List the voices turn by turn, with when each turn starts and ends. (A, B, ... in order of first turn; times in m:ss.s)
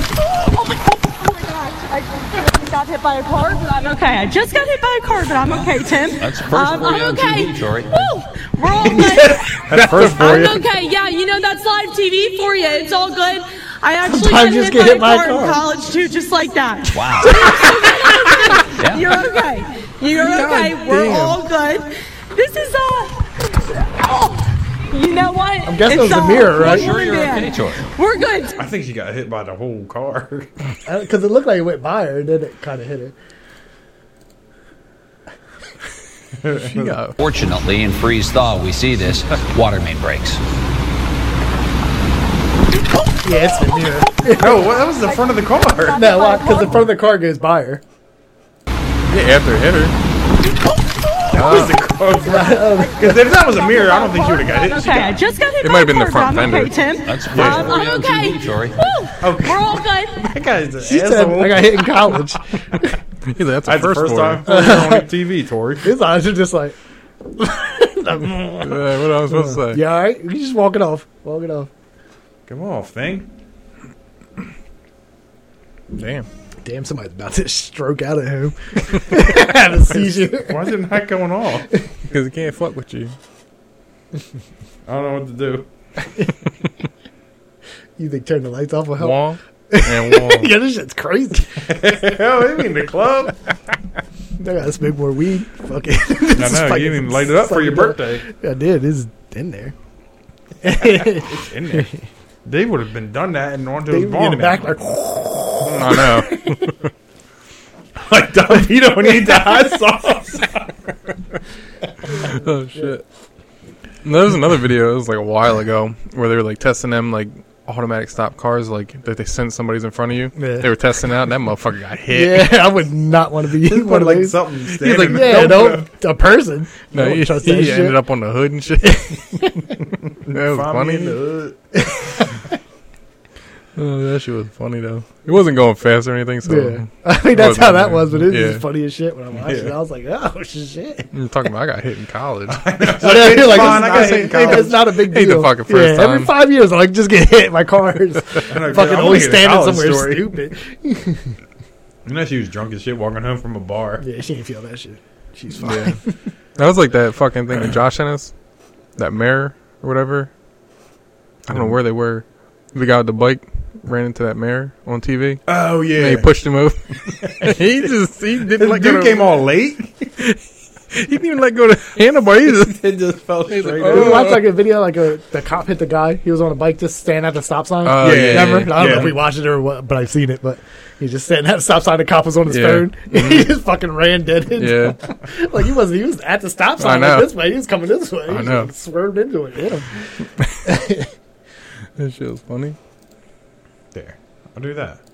0:00.4-0:28.6 A
0:06.2-0:08.1 B
0:08.9-0:10.4 C
0:09.5-0:10.6 D
0:14.1-0:15.6 C
0:16.9-0:17.5 B
0:17.2-0:17.9 C
0:18.8-0:19.1 B
0:20.3-0:21.3 E
0:20.9-0:21.3 C
0:25.7-0:27.0 C
0:26.3-0:27.9 B
0:28.6-0:30.5 D
0:30.9-0:33.2 C
0:36.4-0:37.0 D
0:36.6-0:37.2 E
0:37.2-0:40.4 B
0:43.2-0:44.7 C
0:44.4-0:46.1 D
0:45.0-0:46.8 A
0:45.9-0:47.8 C
0:49.1-0:49.9 E
0:51.3-0:55.2 D
0:51.3-0:51.7 E
0:52.2-0:53.2 C
0:52.7-1:00.3 A
0:55.6-0:56.8 E
0:57.0-0:58.9 B
0:57.3-0:57.7 D
0:59.2-1:02.2 D
1:00.8-1:03.0 C
1:03.3-1:04.4 E
1:03.6-1:05.9 D
1:04.5-1:05.1 C
1:05.8-1:06.8 C
1:07.4-1:11.7 C
1:08.6-1:09.8 E
1:12.5-1:13.3 D
1:15.9-1:16.3 E
1:16.6-1:20.8 C
1:20.0-1:21.7 D
1:22.1-1:23.2 E
1:24.9-1:25.7 D
1:28.0-1:31.8 C
1:29.0-1:30.5 E
1:31.6-1:33.5 D
1:34.4-1:39.7 C
1:36.3-1:38.2 D
1:40.6-1:42.0 C
1:41.1-1:41.9 D
1:42.4-1:44.7 D
1:43.9-1:46.5 C
1:45.6-1:46.8 E
1:48.0-1:50.9 D
1:52.2-1:53.0 E
1:54.0-2:02.7 E
2:00.4-2:00.7 C
2:02.1-2:08.1 C
2:03.6-2:05.9 D
2:04.8-2:05.4 E
2:06.9-2:09.5 E
2:08.8-2:09.7 C
2:10.3-2:11.6 D
2:10.3-2:11.2 E
2:11.7-2:12.4 C
2:13.8-2:18.6 E
2:16.4-2:21.1 C
2:19.4-2:19.8 D
2:21.1-2:26.3 E
2:22.5-2:24.8 D
2:22.8-2:31.4 C
2:28.5-2:30.4 D
2:32.0-2:34.0 D
2:34.0-2:36.2 C
2:35.6-2:38.3 E
2:39.0-2:40.3 E
2:41.5-2:49.5 E
2:41.5-2:41.8 D
2:45.5-2:46.4 D
2:47.1-2:47.6 D
2:48.5-2:50.1 D
2:50.2-2:52.9 E
2:52.6-2:54.4 D
2:53.5-2:54.5 E
2:53.8-3:11.1 C
2:57.8-2:59.1 E
2:58.0-2:59.2 D
3:02.5-3:03.6 E
3:04.6-3:05.0 E
3:06.8-3:07.4 E
3:08.3-3:08.7 E
3:10.4-3:10.7 E
3:12.0-3:12.8 E
3:13.9-3:15.0 D